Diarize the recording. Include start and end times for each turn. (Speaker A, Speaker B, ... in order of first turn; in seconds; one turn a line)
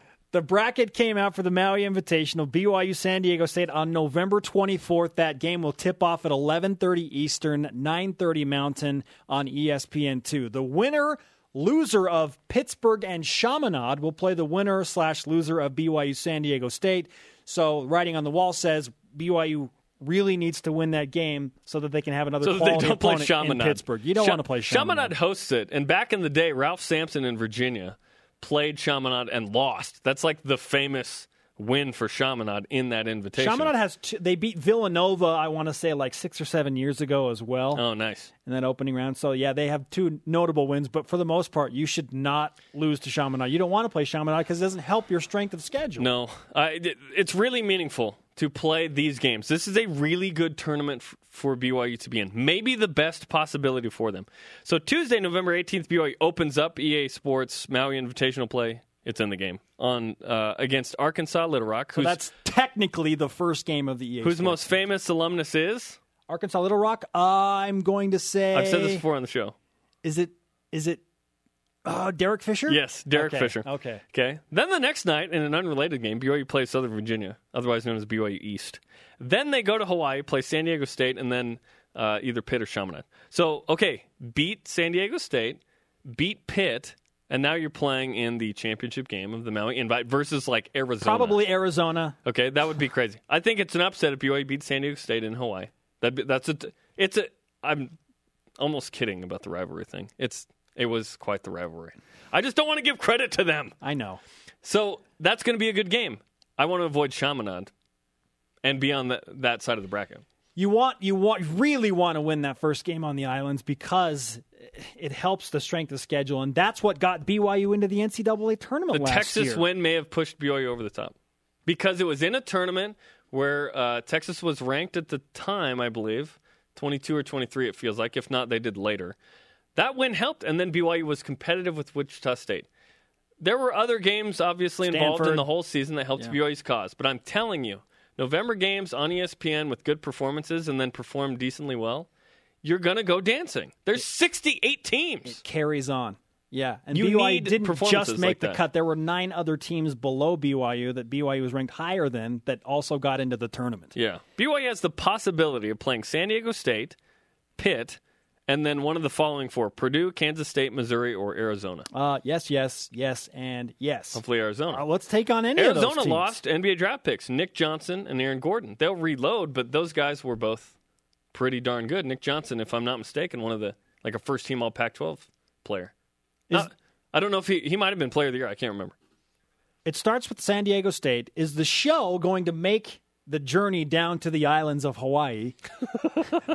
Speaker A: 0.3-25.1
Speaker B: 22.4-33.7
Speaker A: 33.4-37.8
Speaker B: 37.8-38.3
Speaker A: 38.5-46.1
Speaker B: 46.0-62.2
Speaker A: 62.0-64.7
Speaker B: 64.2-66.0
Speaker A: 66.3-69.0
Speaker B: 68.5-69.5
Speaker A: 70.0-71.0
Speaker A: 71.8-74.0
Speaker B: 72.7-91.4
Speaker A: 91.0-92.2
Speaker B: 92.2-98.0
Speaker B: 98.6-103.8
Speaker A: 103.8-104.2
Speaker B: 104.6-107.7
Speaker B: 108.6-110.2
Speaker A: 110.6-119.6
Speaker B: 118.9-121.1
Speaker B: 121.7-129.2
Speaker B: 129.8-132.7
Speaker B: 133.4-142.1
Speaker A: 134.8-135.4
Speaker B: 142.6-145.4
Speaker A: 145.2-153.9
Speaker B: 146.9-148.6
Speaker B: 153.9-157.0
Speaker B: 157.6-161.9
Speaker A: 161.9-166.4
Speaker B: 164.2-164.8
Speaker B: 165.6-170.7
Speaker B: 171.3-175.9
Speaker B: 176.5-178.9
Speaker A: 179.8-185.6